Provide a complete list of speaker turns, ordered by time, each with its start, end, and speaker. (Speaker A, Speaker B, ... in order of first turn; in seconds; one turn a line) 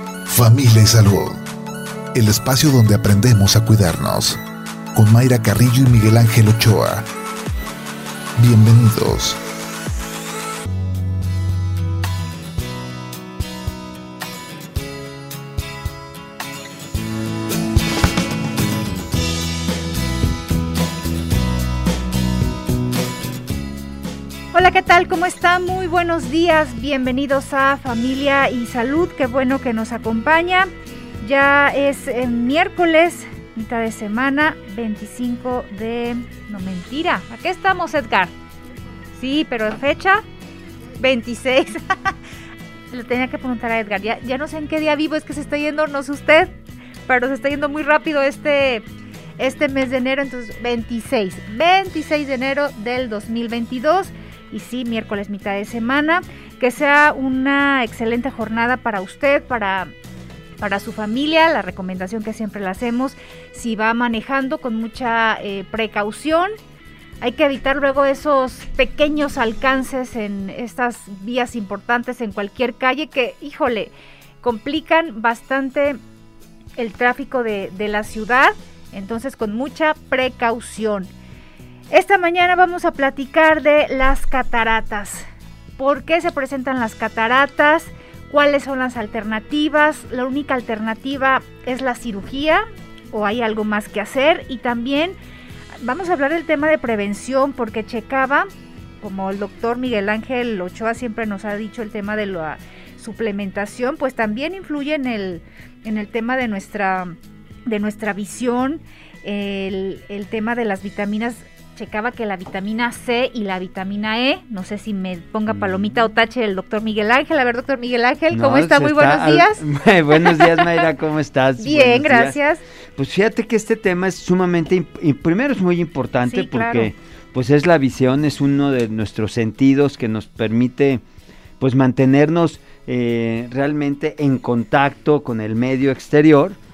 Speaker A: 0.3-1.4
Speaker A: 2.1-4.4
Speaker A: 5.0-7.1
Speaker A: 8.4-9.4
Speaker B: 24.5-30.7
Speaker B: 31.2-38.3
Speaker B: 39.1-40.2
Speaker B: 41.0-42.1
Speaker B: 42.9-46.5
Speaker B: 47.1-48.9
Speaker B: 49.4-59.9
Speaker B: 60.6-66.5
Speaker B: 67.2-76.0
Speaker B: 76.8-81.1
Speaker B: 81.9-85.3
Speaker B: 85.8-95.2
Speaker B: 95.8-98.5
Speaker B: 99.0-120.9
Speaker C: 115.5-115.9
Speaker C: 118.3-122.4
Speaker B: 121.6-122.6
Speaker C: 123.0-131.0
Speaker B: 126.2-126.9
Speaker C: 131.6-136.6